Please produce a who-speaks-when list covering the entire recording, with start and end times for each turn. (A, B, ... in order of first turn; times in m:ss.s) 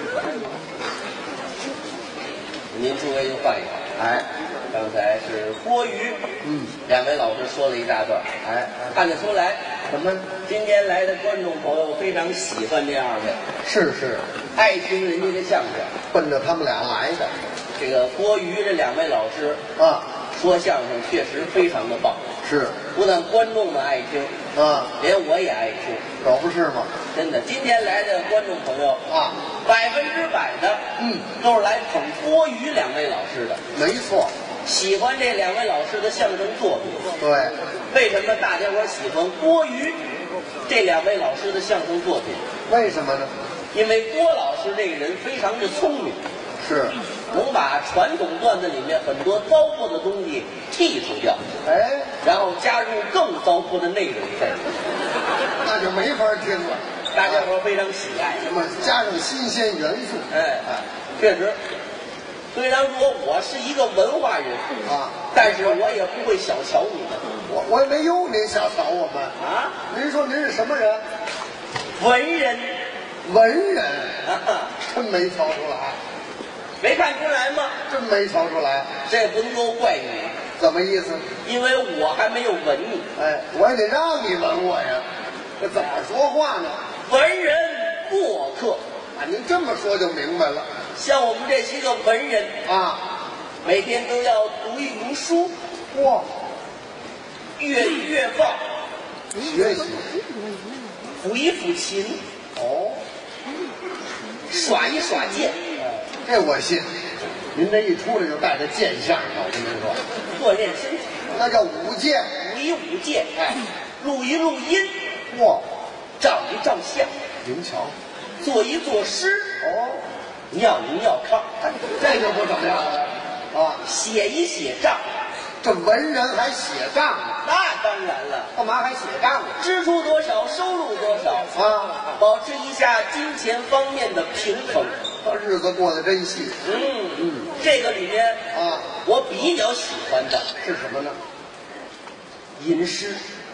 0:02.7-0:06.2 A
0:06.4-0:06.7 B
0:06.8-0:13.4 A
0:08.4-0:09.0 B
0:09.9-0:10.2 B
0:13.6-0:14.3 B
0:14.6-0:16.0 A
0:16.0-0:17.3 B
0:17.8-0:19.6 A
0:19.8-0:20.1 B
0:20.3-0:22.3 A
0:22.4-0:22.8 B
0:22.9-0:24.4 A
0:24.5-0:24.9 B
0:25.0-0:26.0 A
0:26.2-0:26.9 B
0:27.1-0:29.0 A
0:29.1-0:29.4 B
0:29.6-0:33.6 A
0:31.0-0:31.2 B
0:33.7-0:34.3 B
0:34.7-0:37.2 A
0:37.2-0:37.6 B
0:37.9-0:40.0 A
0:40.7-0:42.4 A
0:42.7-0:43.3 B
0:43.7-0:46.2 A
0:46.6-0:47.0 B
0:47.3-0:51.4 A
0:51.6-0:52.1 B
0:52.2-0:54.7 A
0:55.6-0:57.5 B
0:57.1-0:58.5 A
0:58.4-1:00.8 B
1:00.3-1:01.6 A
1:02.5-1:04.7 A
1:04.8-1:05.8 B
1:05.3-1:07.2 A
1:07.5-1:09.4 B
1:09.4-1:09.8 A
1:09.9-1:11.0 B
1:12.0-1:12.8 A
1:13.2-1:14.2 B
1:14.2-1:14.7 A
1:14.8-1:16.0 B
1:16.8-1:17.8 A
1:17.9-1:18.9 B
1:19.1-1:20.4 A
1:20.6-1:21.3 B
1:21.4-1:23.1 A
1:23.2-1:25.1 B
1:25.6-1:26.8 B
1:27.0-1:28.8 A
1:29.2-1:30.7 B
1:31.0-1:32.6 A
1:32.6-1:33.0 B
1:33.6-1:35.5 A
1:35.9-1:36.3 B
1:37.6-1:38.6 A
1:39.4-1:40.1 B
1:41.1-1:42.2 A
1:42.6-1:43.0 B
1:44.5-1:45.6 A
1:45.8-1:50.0 B
1:50.3-1:51.2 A
1:51.3-1:52.4 B
1:52.4-1:53.3 A
1:54.0-1:54.9 A
1:55.3-1:55.6 B
1:56.2-1:57.1 A
1:57.4-1:58.0 B
1:58.4-1:59.6 A
1:59.6-2:00.0 B
2:00.5-2:01.6 A
2:01.9-2:03.8 B
2:03.8-2:05.0 A
2:05.6-2:07.4 B
2:07.4-2:08.5 A
2:08.6-2:09.6 B
2:09.6-2:11.5 A
2:11.5-2:12.0 B
2:12.2-2:15.0 A
2:15.2-2:16.6 B
2:16.6-2:18.4 A
2:17.2-2:17.5 B
2:18.5-2:18.9 B
2:19.0-2:20.5 A
2:20.6-2:21.2 B
2:22.6-2:23.2 A